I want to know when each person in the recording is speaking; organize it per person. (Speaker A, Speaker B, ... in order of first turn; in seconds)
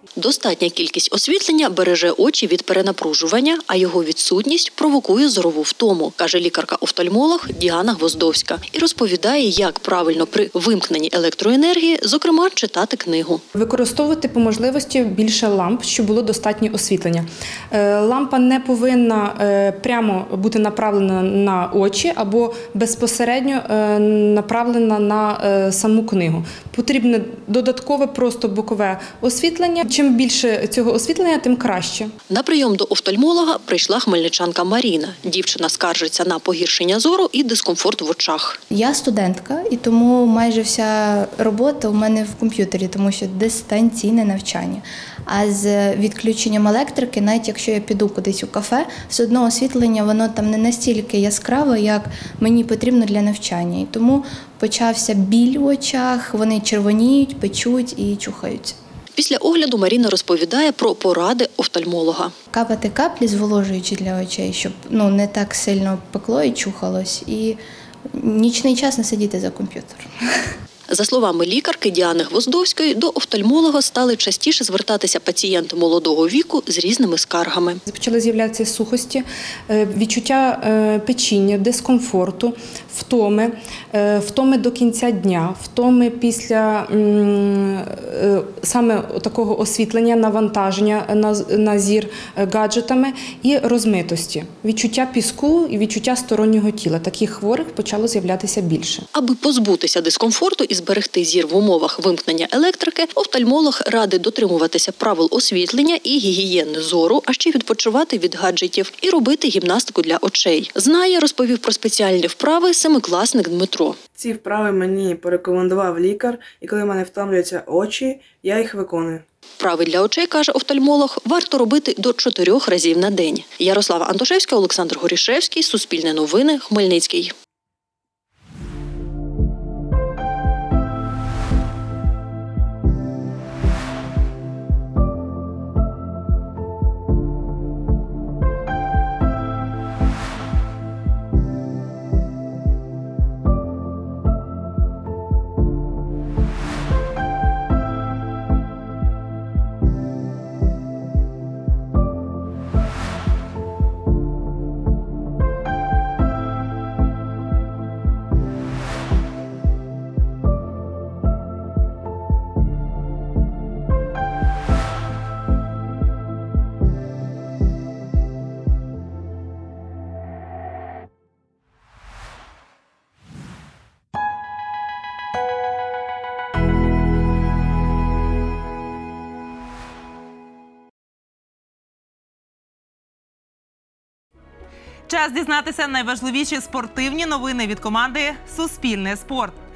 Speaker A: 0.2-13.4, 32.3-38.6, 59.1-62.3, 70.9-77.8, 99.1-114.0, 119.6-127.3
Speaker B: 13.5-32.1, 77.9-99.0
Speaker C: 38.7-58.8, 62.5-67.6, 68.1-70.1
Speaker D: 114.2-119.2
Speaker E: 185.1-189.5